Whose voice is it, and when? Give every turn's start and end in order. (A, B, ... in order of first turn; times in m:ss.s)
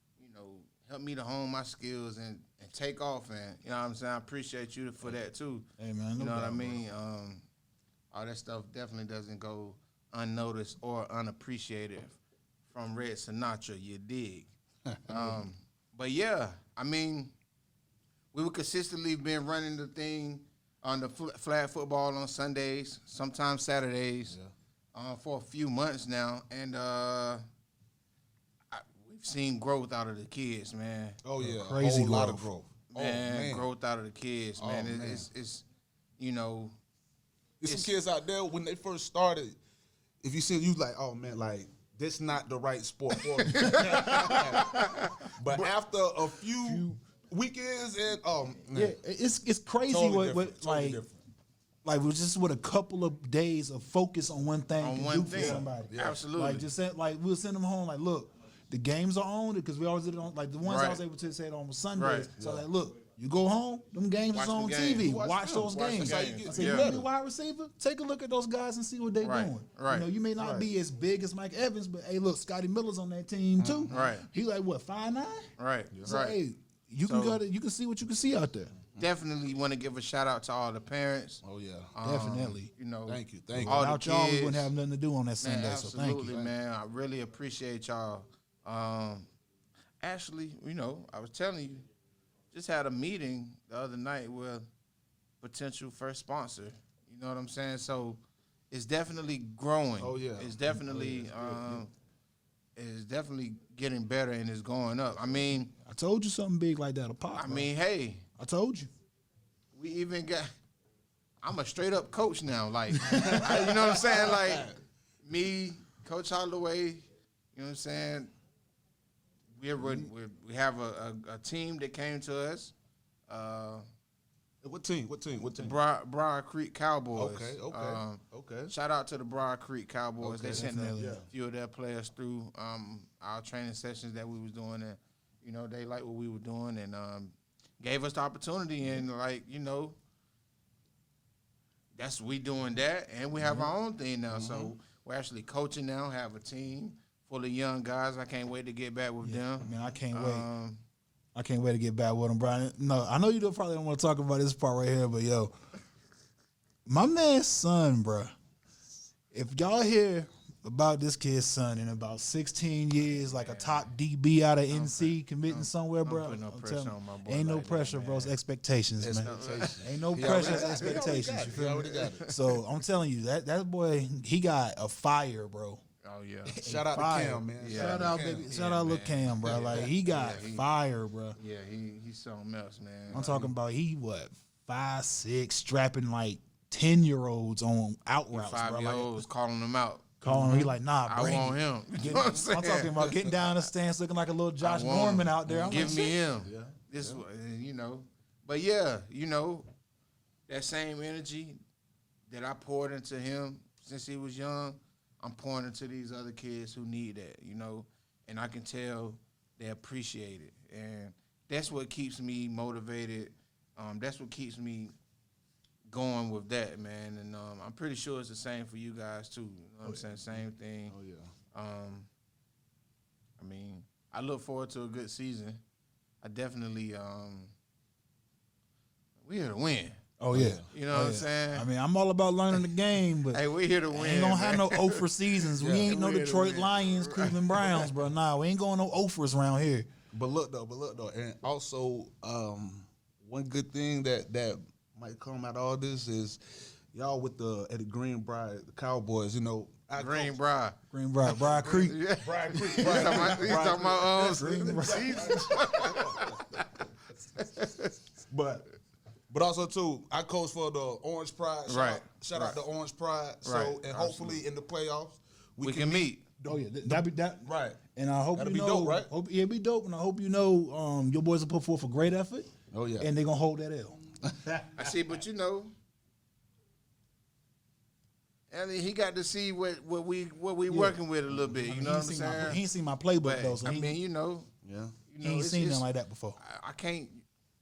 0:00.2-0:07.4 A
0:05.8-0:06.8 B
0:08.1-0:12.2 A
0:12.7-0:14.5 A
0:14.9-0:15.3 C
0:15.1-0:17.3 A
0:18.3-0:24.3 A
0:24.9-0:27.4 A
0:28.7-0:31.2 A
0:31.2-0:33.7 C
0:31.4-0:32.5 B
0:32.9-0:35.6 A
0:34.6-0:35.3 C
0:36.2-0:36.8 A
0:37.6-0:39.6 C
0:40.2-0:49.0 C
0:43.3-0:45.3 A
0:43.6-0:44.2 B
0:46.6-0:47.0 B
0:48.7-0:51.0 B
0:49.9-0:51.2 C
0:51.8-1:15.5 B
0:54.8-0:56.7 A
0:55.3-0:56.2 C
1:00.6-1:01.0 A
1:02.0-1:02.3 A
1:02.4-1:02.6 C
1:04.3-1:05.1 A
1:05.0-1:07.1 C
1:05.7-1:06.9 A
1:09.2-1:10.1 A
1:10.4-1:10.7 C
1:13.6-1:14.1 C
1:13.9-1:14.3 A
1:15.6-1:16.4 A
1:16.0-1:18.7 B
1:17.0-1:17.4 A
1:19.0-1:21.4 A
1:21.4-1:21.9 C
1:21.9-1:24.7 A
1:22.0-1:22.7 B
1:23.1-1:23.8 C
1:23.5-1:26.3 B
1:25.4-1:29.3 A
1:30.0-1:31.8 A
1:32.5-1:34.7 A
1:35.4-1:41.9 A
1:40.0-1:41.8 C
1:42.8-1:45.7 A
1:45.8-1:47.7 B
1:47.3-1:48.2 A
1:48.4-1:48.9 B
1:49.7-1:50.5 A
1:51.4-1:54.7 A
1:52.9-1:53.5 B
1:53.0-1:54.8 C
1:55.2-1:58.3 A
1:59.5-2:02.7 A
1:59.8-2:00.1 C
2:03.3-2:03.8 A
2:04.6-2:05.8 C
2:05.6-2:20.0 A
2:07.2-2:08.7 C
2:10.2-2:11.3 C
2:10.5-2:11.2 B
2:21.9-2:30.8 A
2:24.3-2:24.7 C
2:29.2-2:30.5 B
2:31.3-2:35.5 B
2:36.8-2:38.3 B
2:39.3-2:55.8 B
2:43.2-2:43.9 A
2:44.7-2:48.3 A
2:49.0-2:52.3 C
2:49.2-2:51.0 A
2:51.9-2:52.3 A
2:56.0-2:56.6 A
2:56.5-3:01.4 B
2:56.6-2:58.5 C
2:57.6-3:00.6 A
2:59.4-2:59.9 C
3:01.4-3:03.5 A
3:03.1-3:09.2 B
3:08.3-3:13.1 A
3:10.2-3:16.2 B
3:10.3-3:10.7 C
3:14.6-3:19.7 A
3:15.4-3:17.2 C
3:20.5-3:21.6 A
3:22.3-3:34.9 A
3:35.9-3:40.9 A
3:40.9-3:41.3 C
3:41.5-3:42.1 A
3:43.4-3:45.6 A
3:46.2-3:47.5 A
3:49.2-3:50.0 A
3:50.2-3:59.9 B
3:50.3-3:50.6 C
3:50.7-3:51.7 A
3:53.3-3:55.1 A
3:55.6-3:56.0 C
3:55.8-3:57.9 A
4:00.1-4:10.4 C
4:10.0-4:10.8 A
4:10.9-4:12.0 B
4:11.5-4:16.4 C
4:11.6-4:16.7 A
4:12.8-4:13.4 B
4:14.2-4:15.8 B
4:17.4-4:18.0 A
4:18.3-4:18.7 C
4:19.3-4:27.8 C
4:21.7-4:22.6 A
4:23.4-4:24.4 A
4:25.6-4:26.2 A
4:26.4-4:34.0 B
4:28.3-4:29.1 C
4:32.7-4:33.1 C
4:34.2-4:34.7 C
4:34.8-4:35.7 A
4:38.5-4:42.6 A
4:40.7-4:44.0 B
4:43.2-4:44.5 A
4:44.6-4:45.0 C
4:45.1-4:45.8 A
4:45.2-4:46.4 B
4:46.4-4:47.2 A